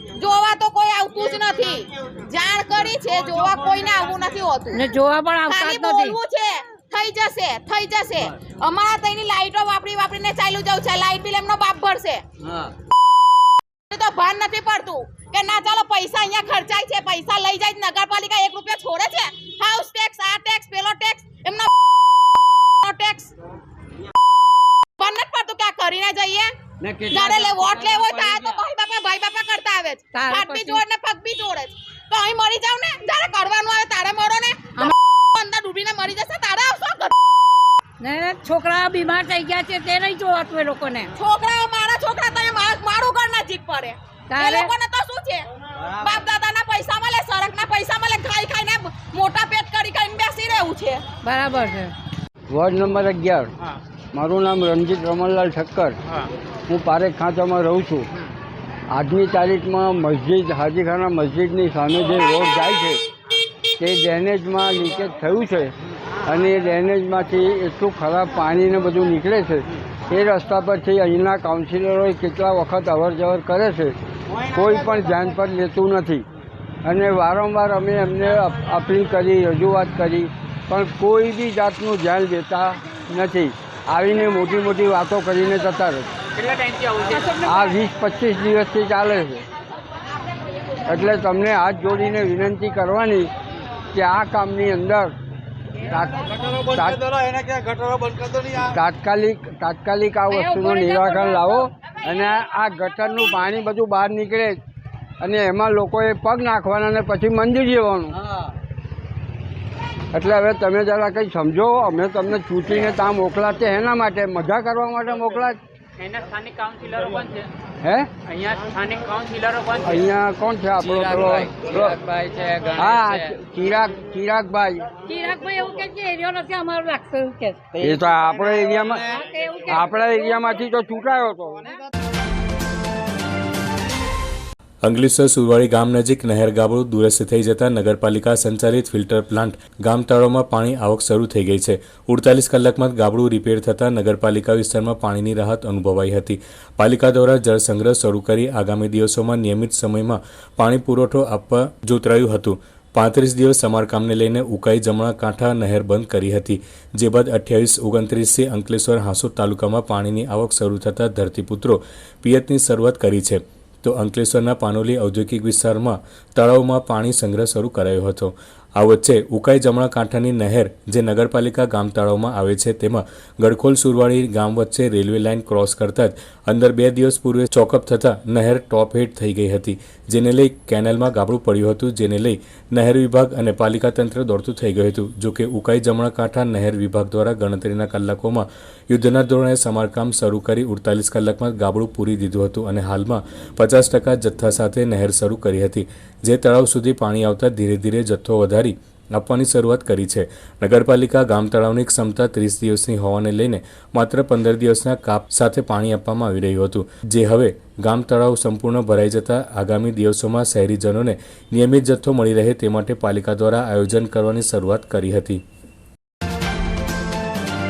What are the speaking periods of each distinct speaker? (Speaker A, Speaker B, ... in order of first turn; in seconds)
Speaker A: 0.2-4.9, 5.5-12.2, 13.9-21.7, 22.8-23.3, 25.0-26.5, 27.1-37.1, 41.1-45.4, 46.0-51.0
Speaker B: 4.7-6.2, 30.1-30.8, 38.0-41.1, 44.3-44.7, 51.2-51.9, 100.3-101.5, 125.0-127.7, 129.1-130.3
Speaker C: 26.8-27.3, 27.9-28.5, 86.3-87.6, 116.0-117.5, 118.2-120.1, 120.8-123.3
Speaker D: 52.5-53.5, 54.1-56.0, 56.7-58.1, 58.9-63.0, 63.8-65.7, 66.2-73.9, 74.5-76.2, 76.8-86.1, 87.4-89.4, 90.9-93.3, 93.9-95.1, 95.9-97.1, 98.7-104.6, 105.2-108.1, 110.1-115.6, 117.8-118.1, 119.8-122.0, 122.8-124.9, 127.8-129.1, 129.7-131.6
Speaker E: 134.8-215.4